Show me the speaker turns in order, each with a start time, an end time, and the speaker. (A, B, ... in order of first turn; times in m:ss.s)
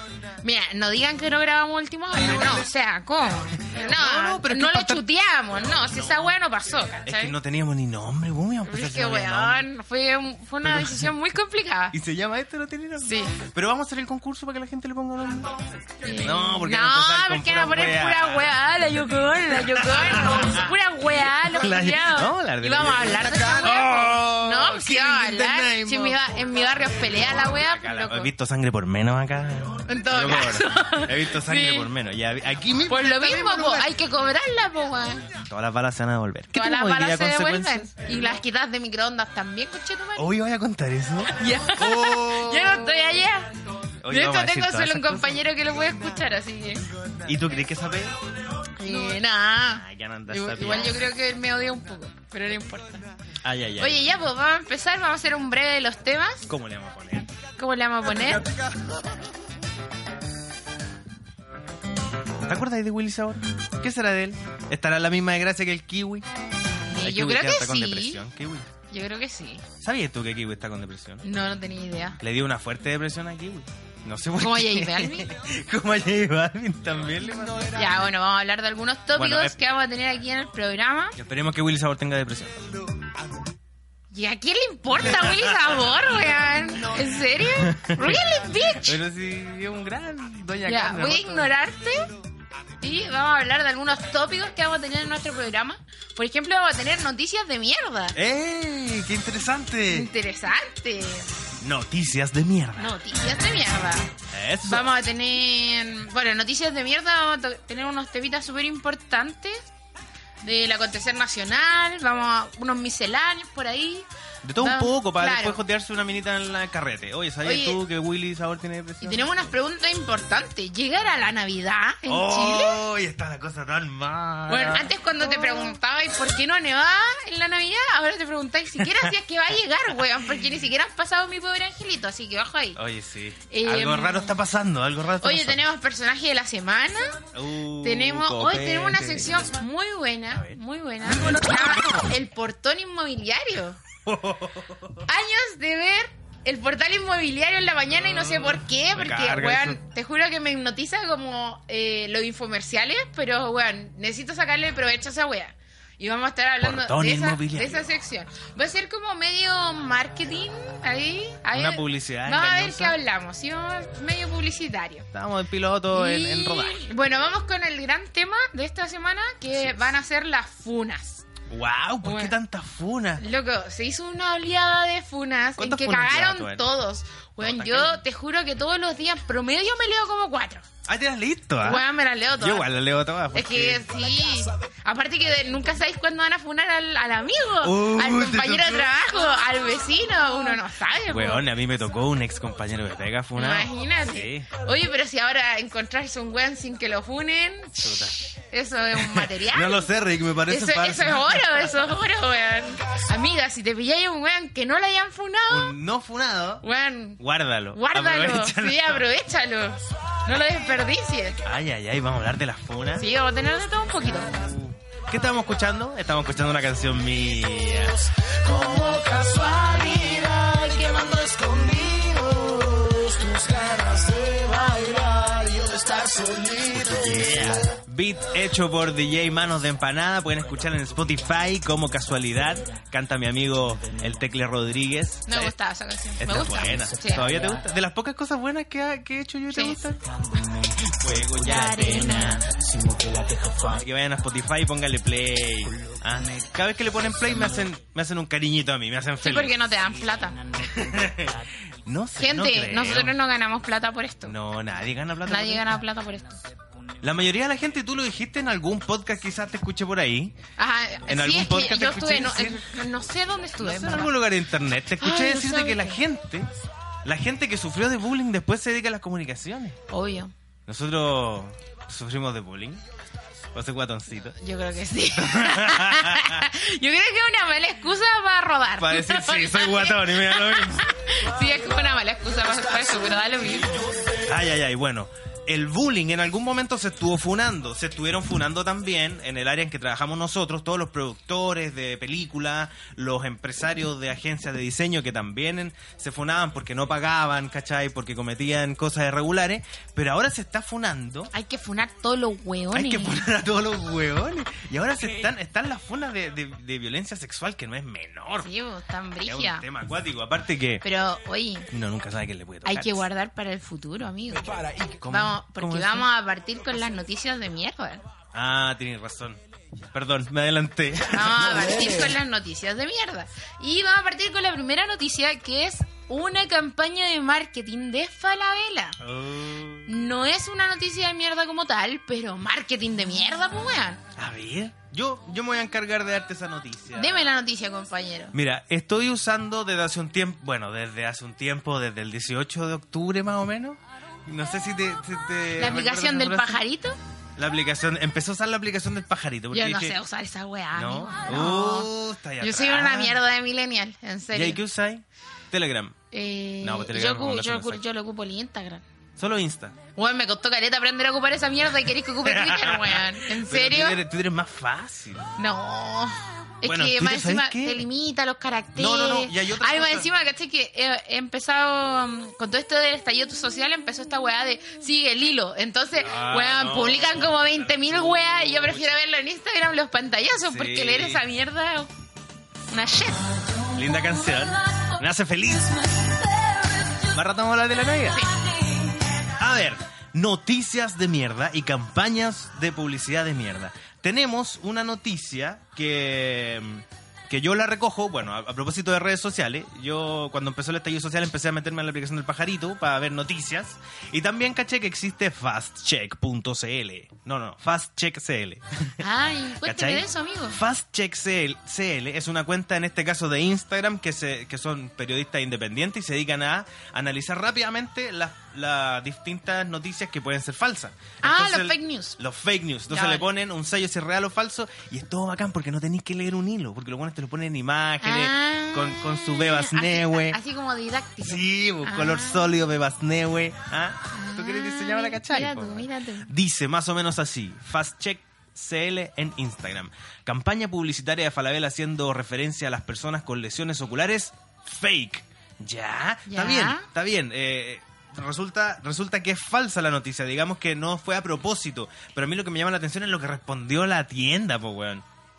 0:00.4-0:07.4 A
0:03.7-0:05.0 B
0:07.0-0:09.7 B
0:08.7-0:12.0 A
0:10.6-0:11.1 B
0:11.9-0:18.7 B
0:13.0-0:13.4 A
0:16.0-0:28.3 A
0:19.5-0:20.7 B
0:21.4-0:26.2 B
0:27.3-0:34.0 B
0:29.9-0:31.9 A
0:32.9-0:35.3 A
0:35.3-0:38.2 B
0:36.5-0:40.3 A
0:40.2-0:43.1 B
0:41.2-0:43.5 A
0:44.0-0:45.4 B
0:44.1-0:46.8 A
0:47.2-0:48.2 B
0:48.8-0:53.1 A
0:48.8-0:51.1 B
0:53.4-0:54.1 B
0:53.8-0:56.5 A
0:56.5-0:57.3 B
0:57.6-0:58.5 A
0:58.2-0:58.9 B
1:02.4-1:06.3 B
1:06.9-1:08.2 A
1:07.0-1:08.7 B
1:08.9-1:09.6 A
1:09.8-1:11.2 B
1:11.2-1:12.2 A
1:12.2-1:17.8 B
1:14.4-1:15.3 A
1:17.7-1:21.2 A
1:19.2-1:19.6 B
1:21.2-1:22.6 B
1:24.1-1:29.0 A
1:25.0-1:26.0 B
1:26.9-1:31.6 B
1:30.7-1:32.1 A
1:32.8-1:38.2 A
1:38.1-1:40.1 B
1:39.9-1:41.3 A
1:41.6-1:42.9 B
1:42.8-1:44.1 A
1:44.3-1:44.9 B
1:44.6-1:49.6 A
1:50.4-1:54.1 A
1:54.4-1:59.3 B
1:54.6-1:55.6 A
1:57.4-1:57.8 A
1:59.0-2:02.8 A
2:02.1-2:05.8 B
2:04.5-2:12.8 A
2:08.8-2:09.1 B
2:12.8-2:15.6 B
2:13.5-2:14.4 A
2:15.2-2:17.2 A
2:17.3-2:19.5 B
2:17.8-2:23.8 A
2:20.3-2:20.6 B
2:24.0-2:25.0 B
2:25.0-2:45.1 A
2:28.0-2:29.8 B
2:36.6-2:37.9 B
2:41.5-2:43.0 B
2:45.1-2:46.8 B
2:45.9-2:51.2 A
2:51.5-2:53.2 B
2:52.0-2:52.3 A
2:53.2-3:00.7 A
2:55.6-2:56.7 B
2:57.4-2:58.0 B
3:00.8-3:03.9 B
3:01.6-3:02.7 A
3:03.3-3:11.5 A
3:07.6-3:09.1 B
3:11.1-3:14.5 B
3:13.4-3:19.9 A
3:17.8-3:18.2 B
3:19.0-3:21.9 B
3:20.5-3:25.8 A
3:25.5-3:26.7 B
3:26.6-3:27.2 A
3:27.2-3:29.0 B
3:27.7-3:31.4 A
3:31.4-3:33.1 B
3:33.0-3:34.4 A
3:34.3-3:38.0 B
3:38.2-3:47.8 C
3:46.7-3:55.5 B
3:55.3-3:57.3 A
3:56.2-4:00.0 B
3:56.8-3:57.6 C
3:59.5-3:59.8 A
4:00.1-4:03.8 C
4:01.0-4:02.4 B
4:01.5-4:02.4 A
4:03.7-4:09.6 B
4:05.9-4:06.4 C
4:09.2-4:10.4 A
4:10.4-4:11.3 C
4:10.6-4:13.2 B
4:12.2-4:14.4 A
4:14.2-4:15.7 B
4:15.2-4:16.4 A
4:17.0-4:20.4 B
4:20.6-4:24.2 A
4:21.1-4:22.7 B
4:23.6-4:26.5 B
4:25.0-4:26.0 A
4:27.0-4:29.8 B
4:29.9-4:30.3 A
4:30.7-4:32.8 B
4:33.5-4:34.4 B
4:34.4-4:43.8 A
4:35.1-4:36.5 B
4:38.8-4:40.9 B
4:44.2-5:01.3 B
5:01.3-5:03.3 A
5:02.7-5:08.5 B
5:08.4-5:09.6 A
5:09.2-5:10.8 B
5:10.8-5:11.7 A
5:11.7-5:13.0 B
5:12.6-5:18.0 A
5:14.4-5:15.0 C
5:15.0-5:16.1 B
5:18.3-5:19.4 B
5:19.9-5:22.2 B
5:21.1-5:29.0 A
5:29.0-5:29.9 B
5:29.9-5:34.0 A
5:34.2-5:37.3 B
5:36.9-5:38.4 A
5:38.3-5:46.6 B
5:45.6-5:47.0 A
5:47.4-5:50.0 B
5:49.5-5:51.9 A
5:50.7-5:53.2 B
5:52.4-5:54.6 A
5:54.3-5:56.0 B
5:56.1-5:58.8 A
5:56.6-5:57.8 B
5:59.2-5:59.8 B
6:00.0-6:04.0 A
6:02.2-6:05.3 B
6:05.4-6:21.9 A
6:06.6-6:07.8 B
6:08.7-6:10.1 B
6:16.0-6:18.9 B
6:20.5-6:21.2 B
6:22.7-6:23.3 A
6:23.7-6:26.2 B
6:27.0-6:28.3 B
6:28.1-6:28.5 A
6:29.3-6:49.1 B
6:49.0-6:50.6 A
6:49.6-7:10.4 B
7:01.2-7:02.2 A
7:02.9-7:03.3 A
7:08.0-7:12.5 A
7:11.2-7:35.0 B
7:14.1-7:16.3 A
7:26.3-7:26.9 A